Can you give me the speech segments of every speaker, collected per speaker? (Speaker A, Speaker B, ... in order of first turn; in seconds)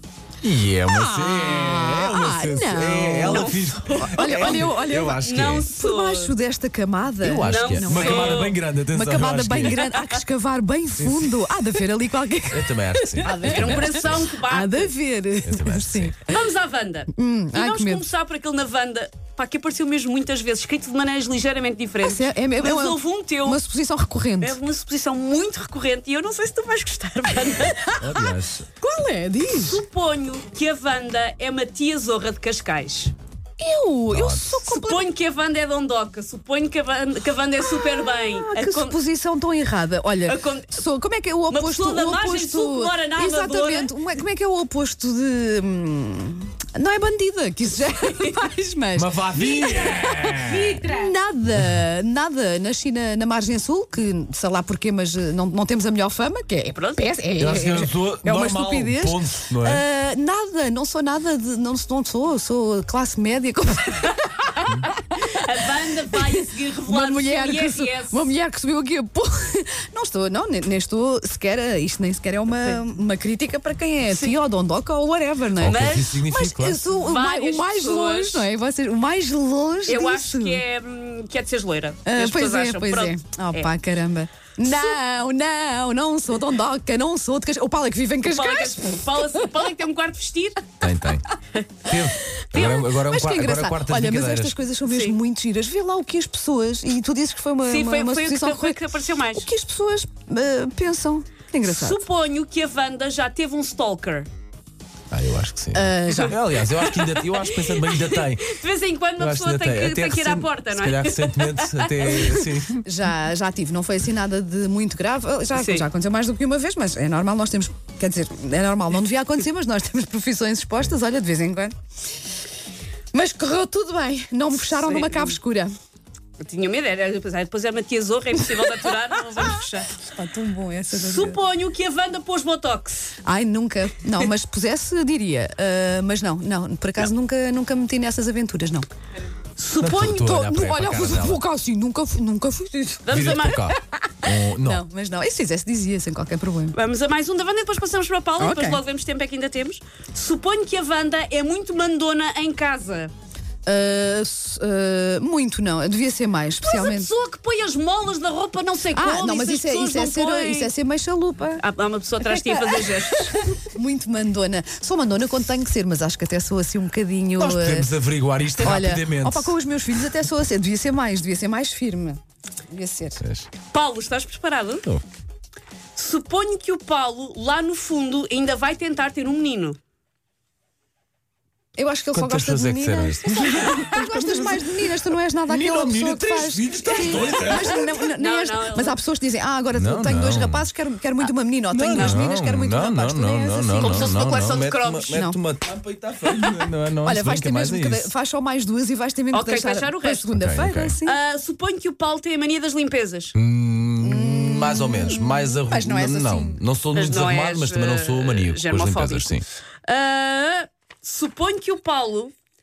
Speaker A: 0.4-5.7, 7.2-9.9, 11.0-11.8, 12.5-14.3, 15.4-16.2, 28.0-28.7, 34.1-34.6, 48.9-50.8, 57.4-59.8, 75.6-76.9, 90.8-91.2, 91.8-94.6, 105.1-108.6, 109.2-112.8, 139.8-141.4, 143.1-144.8, 167.4-169.5, 173.2-173.5, 182.1-184.9, 185.5-188.0, 189.7-190.7, 191.7-198.1, 200.3-200.9, 203.3-209.4
Speaker B: 0.9-16.3, 17.1-18.0, 22.0-24.6, 27.7-28.2, 28.8-29.8, 33.6-35.0, 37.7-65.3, 66.1-80.6, 82.0-89.6, 92.1-98.8, 99.3-102.0, 105.7-106.4, 112.7-121.7, 123.1-125.7, 129.3-131.4, 133.2-138.9, 140.1-146.8, 148.4-148.8, 153.7-157.1, 158.9-161.6, 162.2-167.9, 168.6-172.2, 172.7-173.2, 181.8-194.1, 195.1-195.4, 196.2-201.2, 204.0-206.6
Speaker C: 3.2-4.5, 5.2-6.3, 7.4-8.6, 13.2-14.9, 16.2-23.6, 24.4-27.9, 29.5-33.1, 34.6-39.0, 40.2-40.8, 41.5-43.9, 49.9-51.1, 56.7-57.1, 65.2-68.3, 75.6-76.2, 76.9-78.5, 79.9-83.7, 88.2-90.6, 94.9-95.2, 97.6-99.5, 101.6-104.3, 106.6-112.3, 115.5-115.8, 124.7-125.3, 126.4-129.9, 130.9-133.1, 139.6-140.2, 143.1-143.7, 146.7-153.1, 156.6-160.7, 161.6-163.6, 173.7-174.9, 175.9-179.8, 187.4-189.0, 191.9-192.2, 193.8-195.2, 199.3-200.3, 201.0-203.3, 206.9-212.3